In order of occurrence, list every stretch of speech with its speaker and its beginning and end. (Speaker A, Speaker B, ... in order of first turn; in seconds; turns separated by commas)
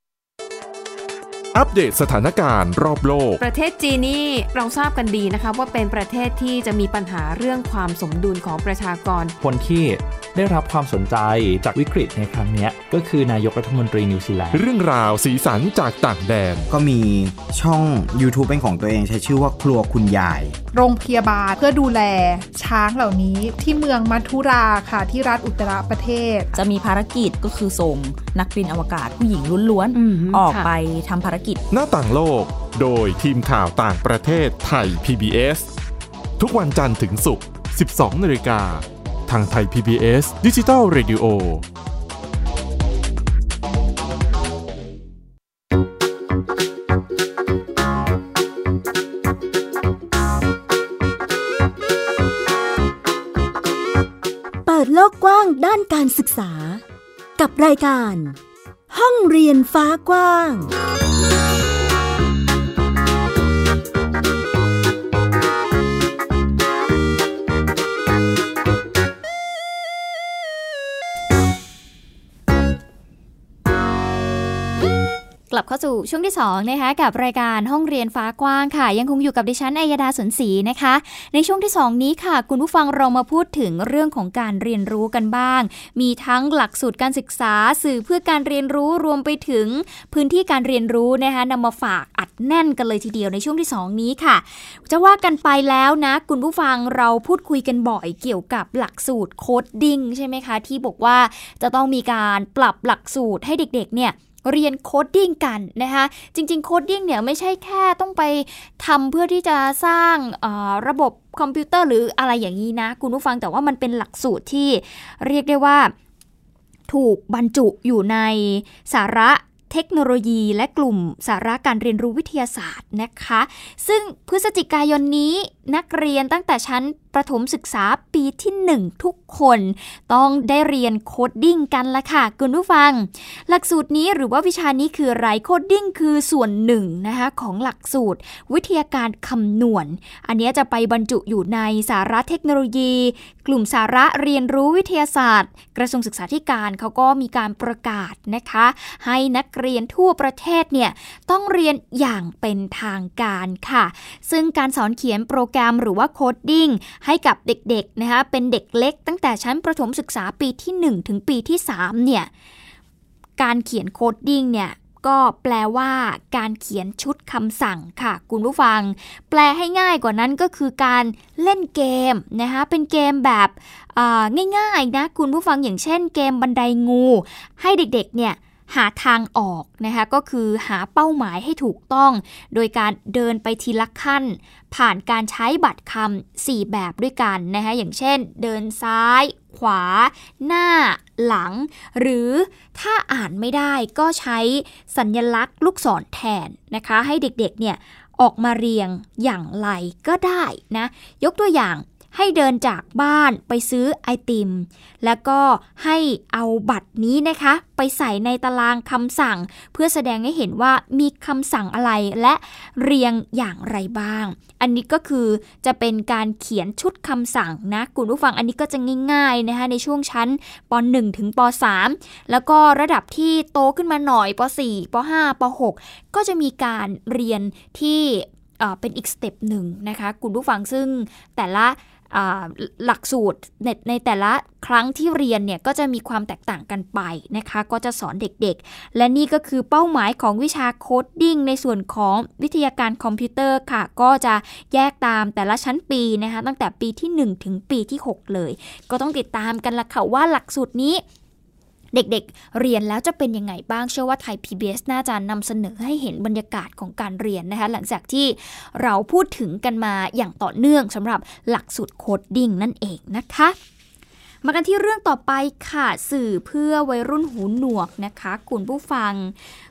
Speaker A: 1.5-3.4, Speaker B: 3.4-9.3, Speaker C: 9.4-14.6, Speaker A: 14.5-16.6, Speaker D: 16.7-20.6, Speaker E: 20.7-26.5, Speaker F: 26.5-31.1, Speaker B: 29.9-30.7, Speaker A: 31.7-35.8, Speaker A: 36.4-41.6, Speaker G: 54.6-56.8, Speaker G: 57.4-58.4, Speaker G: 58.9-60.7, Speaker H: 75.5-115.9, Speaker H: 116.9-162.3, Speaker H: 163.4-251.0, Speaker H: 251.9-263.6, Speaker H: 264.4-269.3